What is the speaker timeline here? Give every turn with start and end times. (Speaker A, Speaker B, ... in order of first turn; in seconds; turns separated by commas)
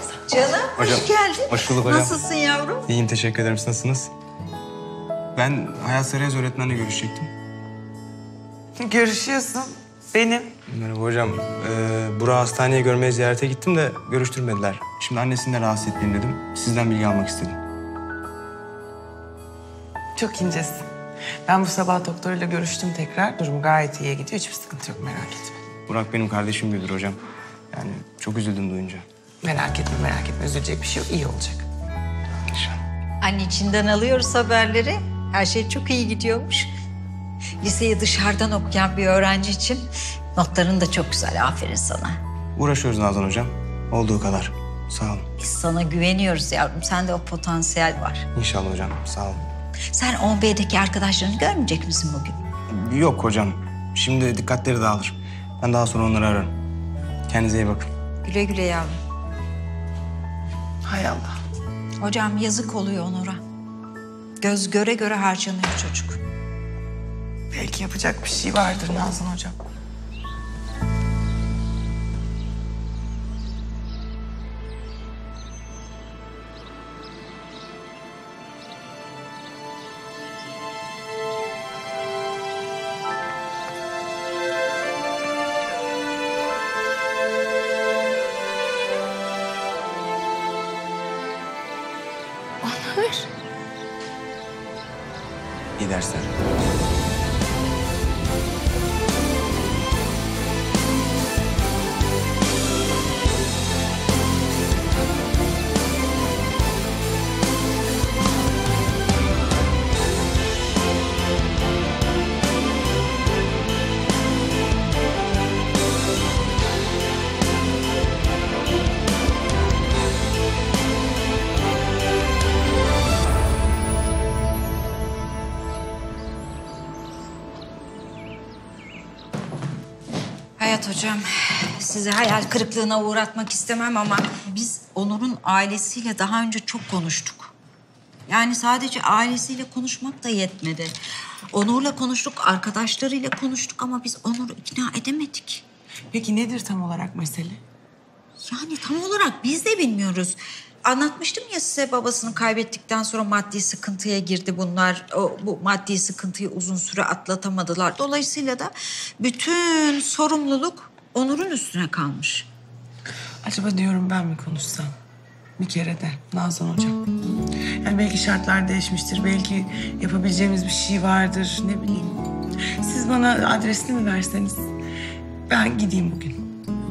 Speaker A: 0.2-2.9, Speaker B: 0.7-2.2, Speaker B: 2.9-4.1, Speaker B: 5.4-7.3, Speaker C: 8.8-10.6, Speaker B: 10.7-17.6, Speaker C: 20.2-20.9, Speaker C: 21.5-25.6, Speaker B: 25.9-27.2, Speaker B: 27.7-29.1, Speaker C: 29.4-31.7, Speaker B: 32.5-32.8, Speaker A: 33.2-36.7, Speaker A: 37.6-42.2, Speaker B: 42.6-45.3, Speaker A: 45.4-48.2, Speaker B: 48.4-49.4, Speaker A: 49.9-52.4, Speaker B: 52.7-56.5, Speaker B: 57.3-57.9, Speaker A: 58.2-59.0, Speaker C: 60.9-61.3, Speaker A: 62.0-63.4, Speaker A: 64.4-66.2, Speaker C: 67.5-69.5, Speaker B: 95.8-96.3, Speaker A: 130.6-137.5, Speaker A: 138.3-140.9, Speaker A: 141.5-145.6, Speaker C: 146.1-147.6, Speaker A: 148.4-162.5, Speaker C: 163.4-164.9, Speaker C: 165.6-167.0, Speaker C: 167.8-172.2, Speaker C: 172.8-174.7, Speaker C: 175.5-176.4